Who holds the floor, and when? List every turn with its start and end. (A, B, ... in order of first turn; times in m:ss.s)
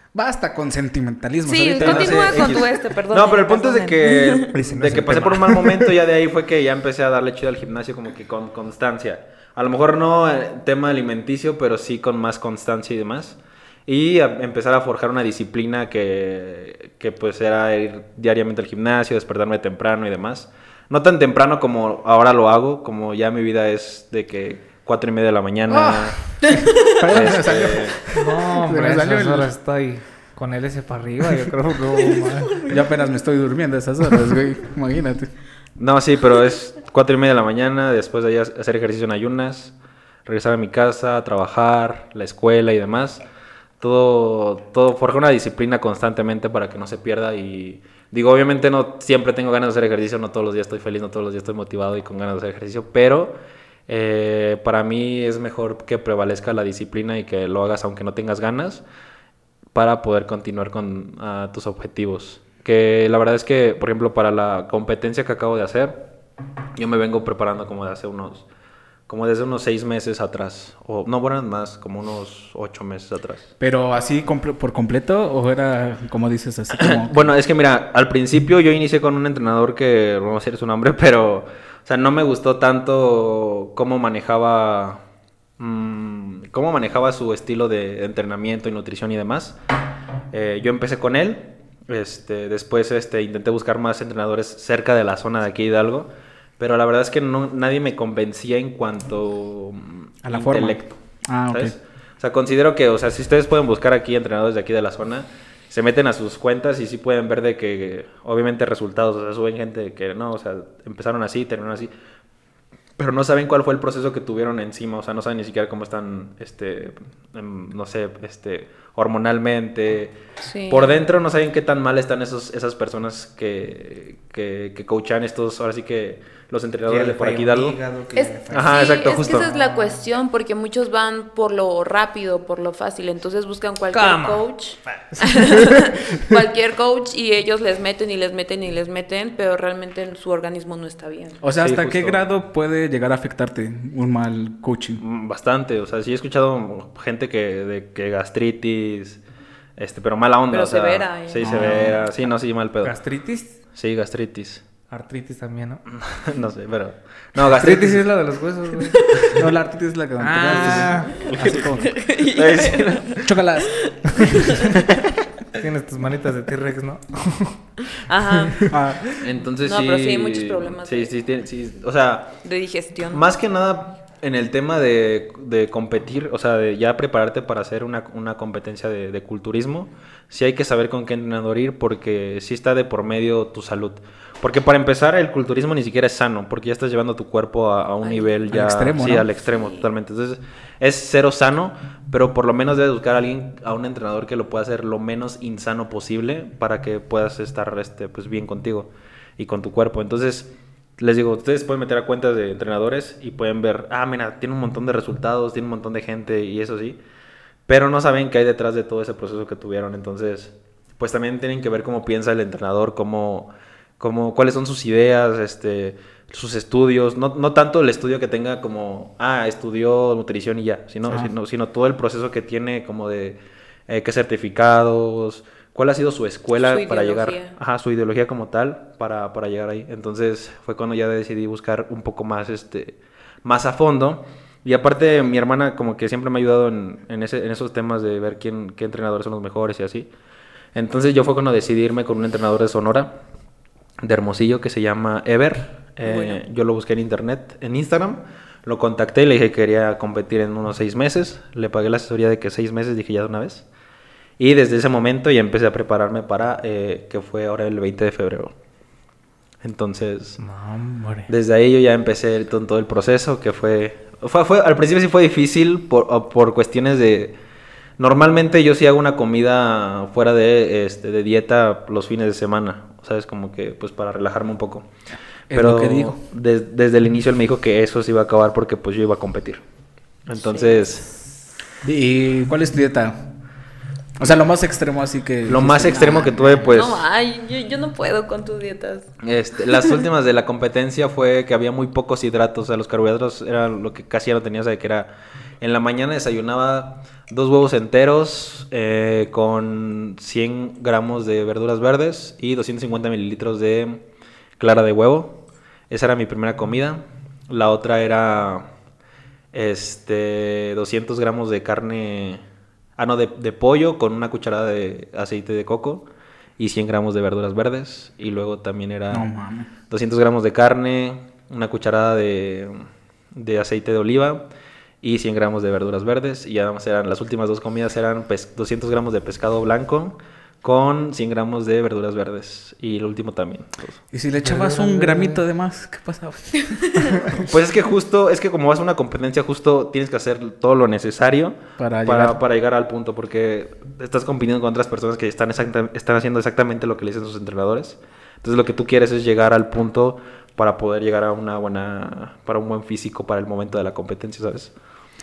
0:00.1-0:02.6 A
0:01.4-0:04.6 B
0:01.8-0:26.3 C
0:04.5-0:05.9 D
0:25.7-0:29.5 A
0:26.6-0:26.9 B
0:27.1-0:28.0 C
0:28.1-0:32.7 D
0:32.6-0:35.3 A
0:35.8-0:39.8 C
0:40.3-0:43.2 C
0:43.8-0:53.4 C
0:53.9-0:58.8 C
0:59.7-1:06.0 C
1:06.8-1:08.5 C
1:09.1-1:13.5 C
1:13.6-1:17.3 A
1:16.7-1:25.0 C
1:25.6-1:29.6 C
1:30.3-1:41.0 C
1:40.2-1:41.7 A
1:41.5-1:51.9 C
1:53.0-2:00.2 C
2:00.4-2:01.0 B
2:00.7-2:07.8 C
2:06.9-2:10.0 D
2:08.2-2:21.4 B
2:08.5-2:09.5 C
2:13.9-2:16.0 D
2:21.4-2:25.0 A
2:21.6-2:22.2 C
2:25.0-2:29.2 C
2:29.8-2:33.0 C
2:30.5-2:32.0 B
2:31.4-2:32.0 A
2:32.8-2:33.6 D
2:33.8-2:34.6 C
2:34.9-2:35.8 D
2:35.9-2:38.1 C
2:37.5-2:39.3 D
2:38.9-2:39.2 B
2:39.2-2:41.9 A
2:40.2-2:41.3 D
2:40.5-2:41.8 C
2:41.7-2:44.7 B
2:42.3-2:43.3 C
2:43.2-2:43.8 A
2:45.5-2:47.6 D
2:48.1-2:48.8 B
2:48.7-2:49.0 A
2:49.2-2:52.4 C
2:49.6-2:51.1 B
2:52.4-2:53.2 B
2:53.1-3:27.0 C
3:08.0-3:08.3 B
3:08.5-3:09.3 A
3:09.5-3:09.9 B
3:27.7-4:00.1 C
3:46.5-3:47.5 B
4:00.7-4:03.1 C
4:04.0-4:13.7 C
4:06.0-4:06.4 B
4:14.4-4:18.5 C
4:19.6-4:20.4 C
4:20.4-4:21.3 D
4:21.3-4:27.4 C
4:28.0-4:34.9 C
4:35.5-4:36.2 A
4:35.5-4:39.6 C
4:40.3-4:41.1 C
4:40.4-4:41.0 B
4:41.8-4:43.2 A
4:44.2-4:46.6 A
4:45.5-4:47.1 C
4:45.9-4:49.1 B
4:49.2-5:04.0 C
5:04.6-5:05.4 C
5:05.9-5:08.7 C
5:09.5-5:12.4 C
5:13.0-5:16.1 C
5:16.6-5:19.3 C
5:19.1-5:19.7 A
5:19.9-5:24.5 C
5:25.0-5:34.0 C
5:34.1-5:37.4 A
5:34.4-5:35.4 D
5:37.4-5:54.7 C
5:41.8-5:42.4 A